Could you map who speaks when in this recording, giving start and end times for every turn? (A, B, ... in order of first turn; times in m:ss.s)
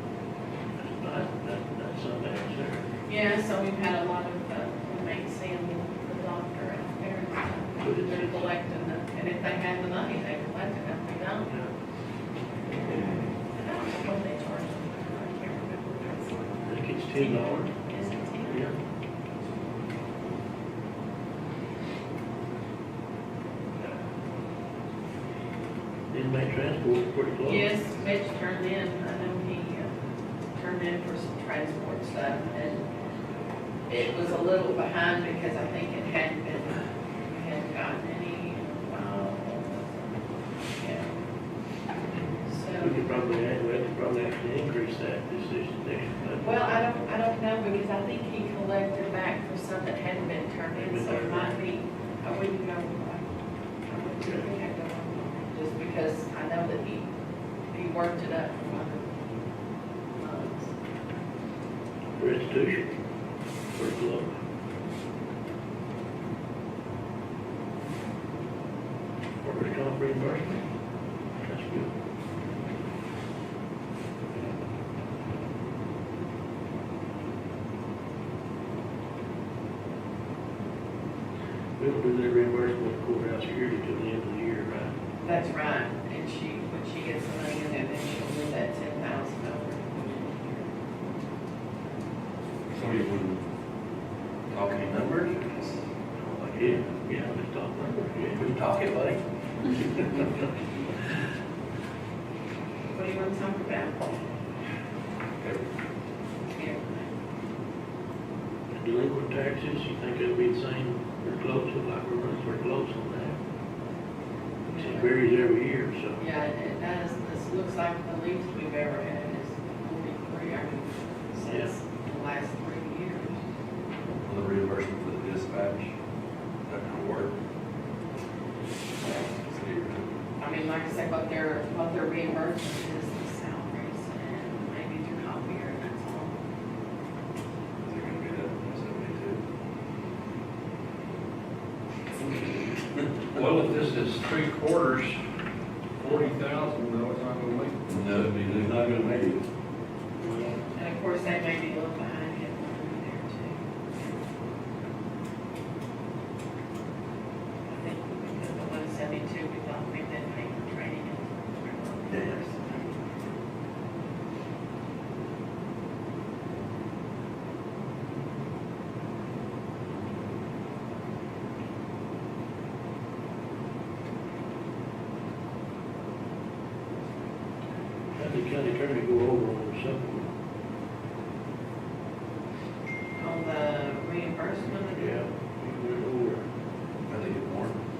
0:00.8-0:02.8 A
0:03.1-0:11.5 B
0:07.8-0:08.5 A
0:13.5-0:16.4 B
0:16.7-0:17.7 A
0:17.2-0:18.8 B
0:18.5-0:18.8 A
0:26.1-0:27.7 A
0:27.4-0:29.9 B
0:30.6-0:32.9 B
0:33.9-0:39.9 B
0:40.8-0:41.3 B
0:42.1-0:43.1 B
0:42.8-0:46.8 A
0:46.4-0:53.3 B
0:50.8-0:51.6 A
0:53.9-0:57.1 B
0:57.7-0:59.2 B
1:00.2-1:00.7 B
1:02.2-1:02.9 A
1:03.7-1:04.4 A
1:09.4-1:10.7 A
1:11.4-1:11.9 A
1:21.8-1:24.9 A
1:25.2-1:30.7 B
1:32.7-1:33.4 C
1:34.5-1:36.9 C
1:36.6-1:38.5 A
1:38.4-1:39.2 C
1:42.9-1:44.0 B
1:45.4-1:45.7 C
1:46.5-1:47.1 B
1:48.7-1:53.4 A
1:54.7-1:55.2 B
1:54.8-1:56.2 A
1:56.2-2:03.4 B
2:04.2-2:05.9 C
2:06.7-2:07.4 C
2:09.3-2:10.1 C
2:10.4-2:16.4 B
2:17.8-2:19.4 C
2:23.3-2:25.2 D
2:26.0-2:28.3 D
2:27.9-2:29.2 C
2:30.8-2:34.2 B
2:37.7-2:42.5 B
2:42.1-2:42.8 C
2:58.2-3:00.3 A
3:03.2-3:05.2 B
3:04.9-3:06.5 A
3:07.1-3:07.8 C